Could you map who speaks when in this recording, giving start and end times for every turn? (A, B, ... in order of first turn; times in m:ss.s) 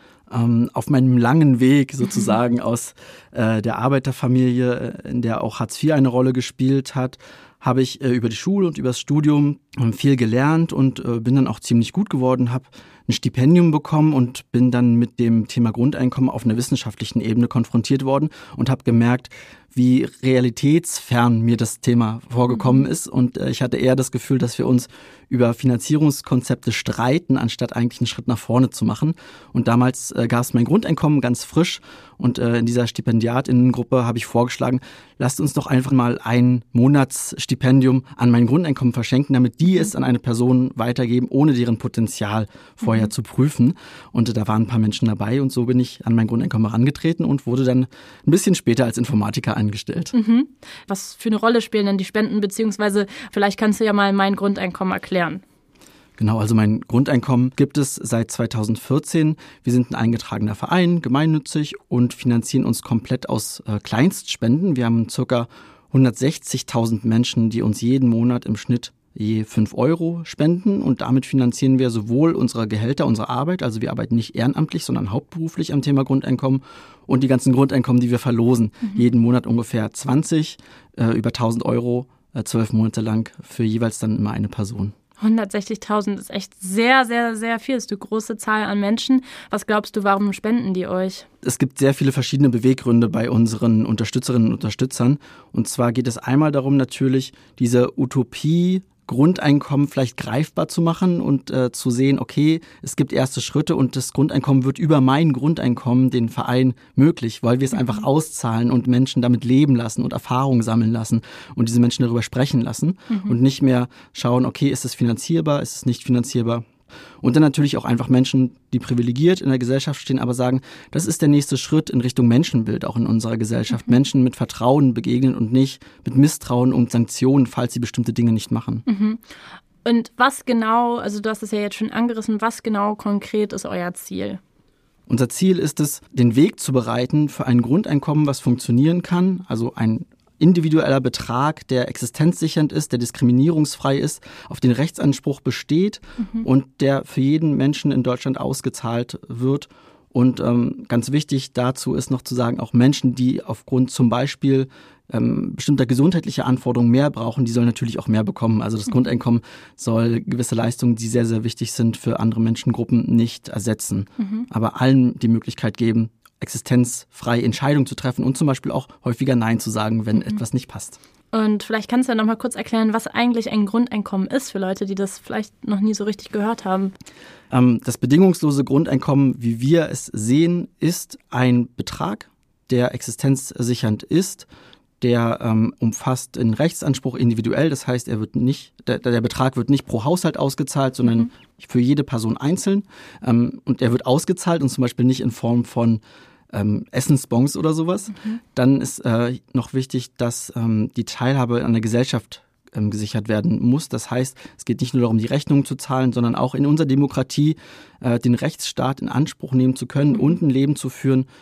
0:00.3-0:50.1 A
0:22.5-0:22.8 B
0:42.8-0:43.1 B
0:50.1-0:55.4 B
0:56.2-1:25.0 A
1:25.2-1:31.3 B
1:31.4-1:56.7 A
1:47.8-1:48.0 B
1:53.1-1:53.4 B
1:57.2-2:08.8 A
2:08.9-2:09.2 B
2:09.8-2:14.4 B
2:15.1-2:51.0 A
2:26.2-2:26.4 B
2:44.2-2:44.5 B
2:51.3-2:56.9 B
2:57.5-3:04.5 A
3:05.0-3:16.0 A
3:16.5-3:31.3 A